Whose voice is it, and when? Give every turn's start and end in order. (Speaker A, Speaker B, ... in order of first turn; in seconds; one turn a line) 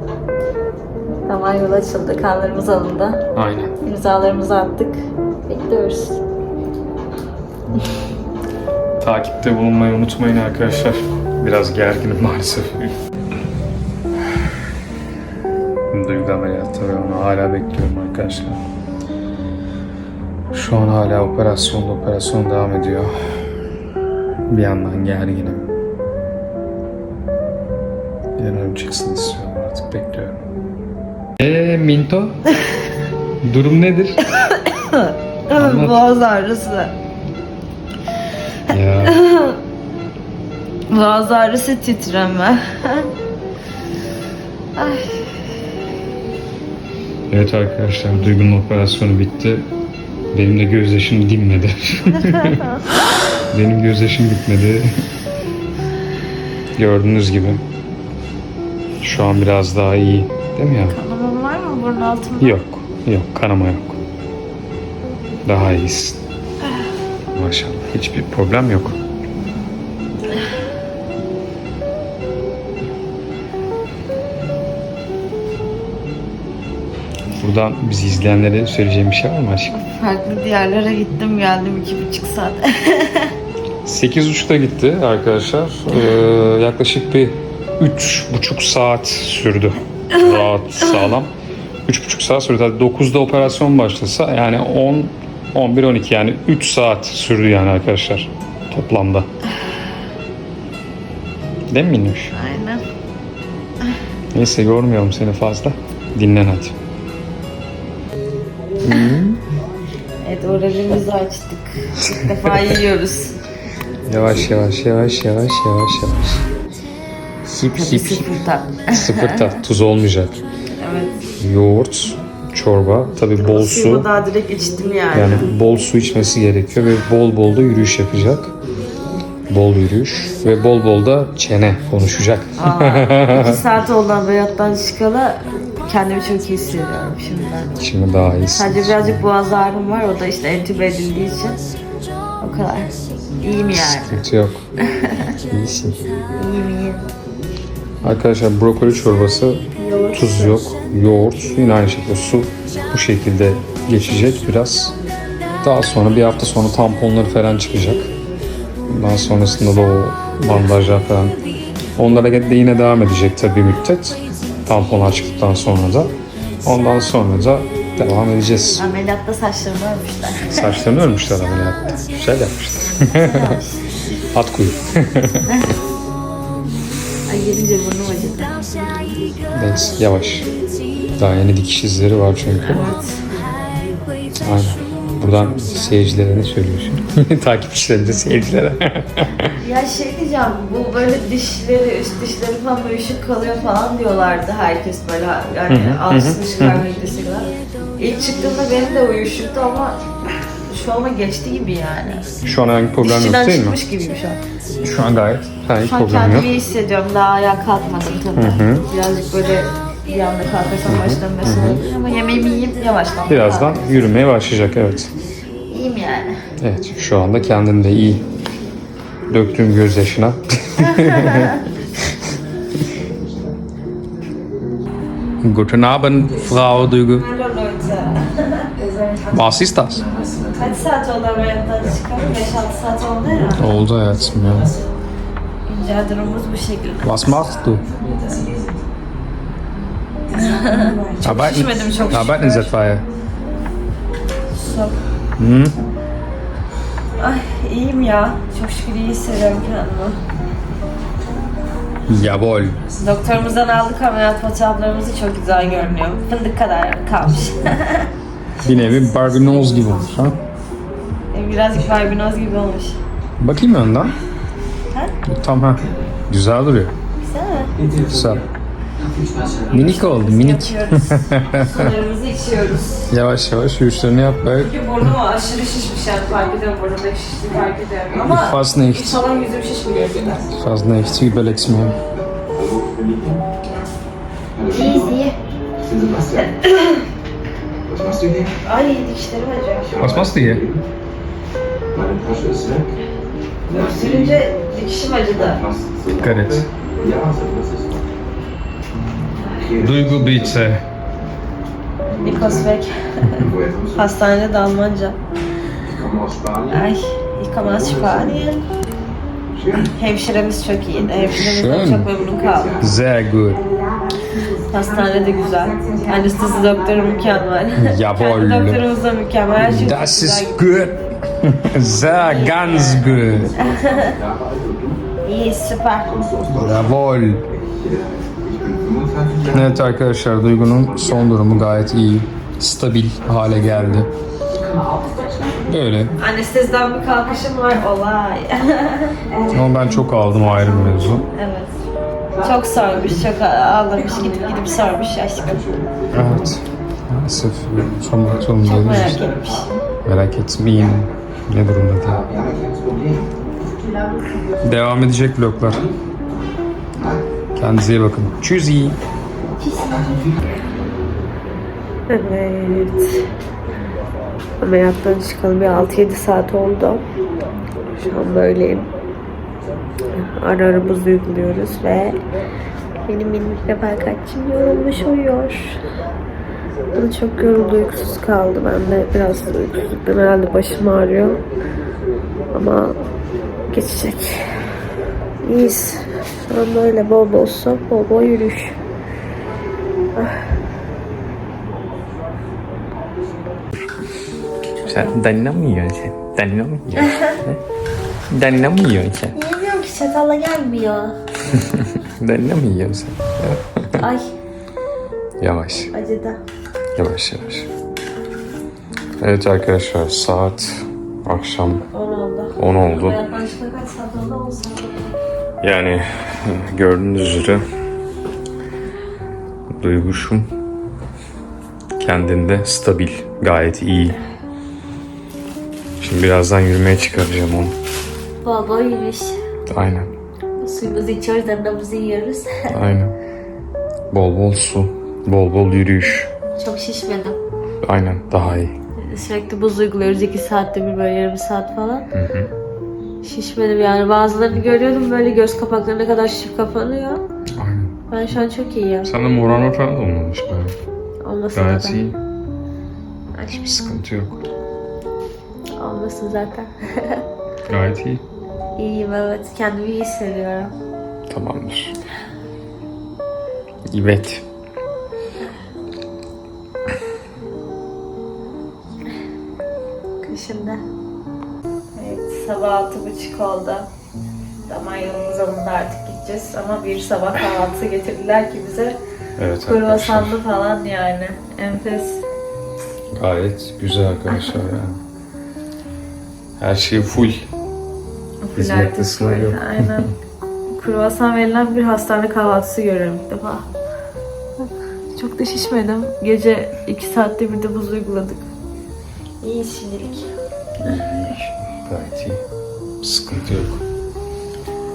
Speaker A: 1.3-3.2
Speaker B: 3.3-3.7
Speaker A: 3.8-6.2
Speaker B: 9.0-12.9
Speaker B: 15.9-18.6
Speaker B: 20.5-23.1
Speaker B: 24.5-25.7
Speaker B: 28.4-30.4
Speaker B: 31.4-32.4
Speaker B: 33.4-34.2
Speaker A: 34.3-36.9
Speaker B: 35.5-36.0
Speaker B: 38.7-39.2
Speaker A: 39.0-39.6
Speaker A: 40.9-43.1
Speaker A: 44.8-45.3
Speaker B: 47.3-49.7
Speaker B: 50.3-52.7
Speaker A: 52.3-52.8
Speaker B: 53.5-54.9
Speaker B: 56.7-57.6
Speaker B: 59.0-61.0
Speaker A: 60.9-62.6
Speaker B: 62.4-64.0
Speaker B: 65.5-66.2
Speaker B: 67.3-69.0
Speaker B: 77.3-79.8
Speaker A: 79.7-83.3
Speaker B: 83.8-91.3
Speaker A: 90.1-91.1
Speaker B: 91.8-99.3
Speaker B: 101.7-102.3
Speaker A: 102.3-102.8
Speaker B: 104.3-106.8
Speaker B: 108.8-109.4
Speaker A: 110.2-113.3
Speaker B: 114.1-116.4
Speaker B: 117.4-118.3
Speaker A: 117.7-119.5
Speaker B: 118.9-120.4
Speaker A: 120.7-121.2
Speaker B: 121.4-124.1
Speaker A: 123.4-125.4
Speaker B: 125.1-128.5
Speaker B: 129.5-133.6
Speaker A: 132.6-137.8
Speaker B: 137.8-139.2
Speaker A: 138.5-141.6
Speaker A: 142.4-144.2
Speaker B: 143.7-144.6
Speaker A: 144.8-145.3
Speaker B: 145.5-146.0
Speaker A: 146.3-147.0
Speaker B: 148.0-154.9
Speaker A: 149.8-150.6
Speaker B: 155.6-158.1
Speaker B: 158.9-161.4
Speaker B: 162.0-166.1
Speaker B: 166.6-168.8
Speaker A: 168.8-170.7
Speaker B: 170.5-173.4
Speaker A: 173.2-173.8
Speaker B: 174.3-175.4
Speaker A: 175.4-175.7
Speaker A: 177.3-178.9
Speaker B: 179.5-180.5
Speaker B: 181.2-182.9
Speaker A: 182.6-183.2
Speaker B: 184.3-189.5
Speaker A: 189.6-200.0
Speaker B: 195.7-196.8
Speaker A: 200.7-202.3
Speaker B: 202.4-203.8
Speaker A: 203.0-204.4
Speaker B: 204.8-206.5
Speaker A: 205.8-213.8
Speaker B: 208.3-208.8
Speaker B: 210.9-211.8
Speaker B: 213.3-215.1
Speaker A: 215.7-216.4
Speaker B: 216.6-218.2
Speaker B: 219.3-221.6
Speaker A: 220.9-221.6
Speaker B: 225.4-227.2
Speaker A: 227.1-228.7
Speaker B: 229.3-230.1
Speaker A: 230.5-233.7
Speaker B: 233.5-234.7
Speaker A: 235.7-237.3
Speaker B: 237.0-237.9
Speaker C: 237.9-238.7
Speaker A: 240.3-242.7
Speaker B: 241.2-243.1
Speaker A: 244.6-245.0
Speaker B: 245.4-245.7
Speaker A: 247.2-250.2
Speaker B: 252.1-252.8
Speaker A: 252.9-258.1
Speaker B: 258.6-260.4
Speaker A: 261.3-263.0
Speaker B: 263.4-264.1
Speaker B: 265.2-266.9
Speaker A: 267.2-267.8
Speaker C: 267.8-268.4
Speaker B: 268.0-268.4
Speaker C: 269.0-269.8
Speaker B: 269.7-271.9
Speaker A: 269.7-273.0
Speaker B: 273.1-274.7
Speaker A: 274.6-280.5
Speaker B: 278.2-279.2
Speaker B: 280.5-281.9
Speaker C: 282.5-283.4
Speaker C: 284.6-285.1
Speaker A: 284.6-285.4
Speaker C: 285.8-286.6
Speaker A: 286.5-287.0
Speaker C: 287.9-288.5
Speaker A: 288.6-289.9
Speaker C: 289.8-290.8
Speaker B: 290.0-290.6
Speaker C: 291.9-292.9
Speaker C: 293.7-294.4
Speaker A: 293.7-295.6
Speaker C: 295.3-298.1
Speaker B: 296.2-296.6
Speaker C: 299.6-300.7
Speaker B: 299.8-300.8
Speaker C: 302.1-302.7
Speaker A: 302.1-305.2
Speaker C: 303.4-304.1
Speaker C: 305.8-306.8
Speaker A: 306.7-308.6
Speaker C: 307.6-308.4
Speaker C: 309.5-309.9
Speaker A: 309.8-312.8
Speaker B: 311.3-312.1
Speaker C: 312.3-312.9
Speaker B: 312.8-313.6
Speaker A: 314.7-320.9
Speaker B: 317.8-318.8
Speaker B: 319.6-323.5
Speaker A: 322.1-324.1
Speaker C: 323.2-325.0
Speaker A: 325.2-326.1
Speaker C: 326.1-326.9
Speaker B: 326.5-327.4
Speaker C: 327.5-329.9
Speaker B: 329.5-334.1
Speaker C: 330.7-331.2
Speaker C: 334.5-335.7
Speaker B: 335.6-336.1
Speaker A: 336.2-339.3
Speaker B: 339.5-341.2
Speaker A: 341.3-341.7
Speaker A: 342.4-345.6
Speaker C: 345.5-346.5
Speaker B: 346.1-349.2
Speaker A: 348.6-349.7
Speaker C: 348.9-349.8
Speaker B: 350.0-352.2
Speaker C: 352.0-353.3
Speaker B: 354.6-355.9
Speaker B: 357.6-359.0
Speaker A: 359.6-360.2
Speaker C: 359.9-360.4
Speaker A: 362.1-363.2
Speaker A: 364.6-367.0
Speaker A: 367.9-368.9
Speaker A: 370.3-372.2
Speaker A: 373.0-375.8
Speaker A: 376.9-381.4
Speaker A: 382.5-383.0
Speaker A: 383.7-384.4
Speaker A: 385.4-388.8
Speaker A: 394.8-395.1
Speaker B: 394.9-397.6
Speaker A: 397.0-397.4
Speaker B: 398.3-399.4
Speaker A: 399.3-401.2
Speaker B: 401.5-404.1
Speaker A: 403.9-404.3
Speaker B: 405.4-405.9
Speaker A: 405.9-406.4
Speaker B: 407.0-407.7
Speaker B: 409.2-411.9
Speaker A: 411.9-415.1
Speaker B: 412.6-413.2
Speaker B: 415.6-417.6
Speaker B: 419.8-420.5
Speaker B: 422.0-424.2
Speaker B: 426.0-427.8
Speaker A: 428.4-429.4
Speaker B: 429.7-430.1
Speaker A: 430.6-432.7
Speaker B: 432.7-433.2
Speaker B: 434.1-436.3
Speaker A: 436.6-437.4
Speaker B: 437.8-438.7
Speaker A: 439.0-442.1
Speaker B: 442.1-442.5
Speaker A: 443.2-447.2
Speaker B: 447.6-447.9
Speaker A: 448.1-449.1
Speaker B: 449.0-450.8
Speaker A: 451.2-452.0
Speaker B: 451.5-452.2
Speaker B: 453.4-454.4
Speaker A: 455.8-457.2
Speaker B: 457.7-458.2
Speaker A: 458.8-460.7
Speaker B: 461.3-461.9
Speaker B: 463.9-464.4
Speaker A: 470.2-470.8
Speaker A: 471.9-473.9
Speaker A: 474.7-479.0
Speaker B: 479.4-480.4
Speaker A: 479.6-482.2
Speaker B: 483.1-485.0
Speaker A: 484.3-484.6
Speaker B: 486.6-487.4
Speaker A: 488.4-490.1
Speaker B: 488.6-490.1
Speaker A: 490.8-493.7
Speaker A: 495.1-498.4
Speaker A: 499.4-500.3
Speaker B: 500.8-502.4
Speaker B: 503.0-503.8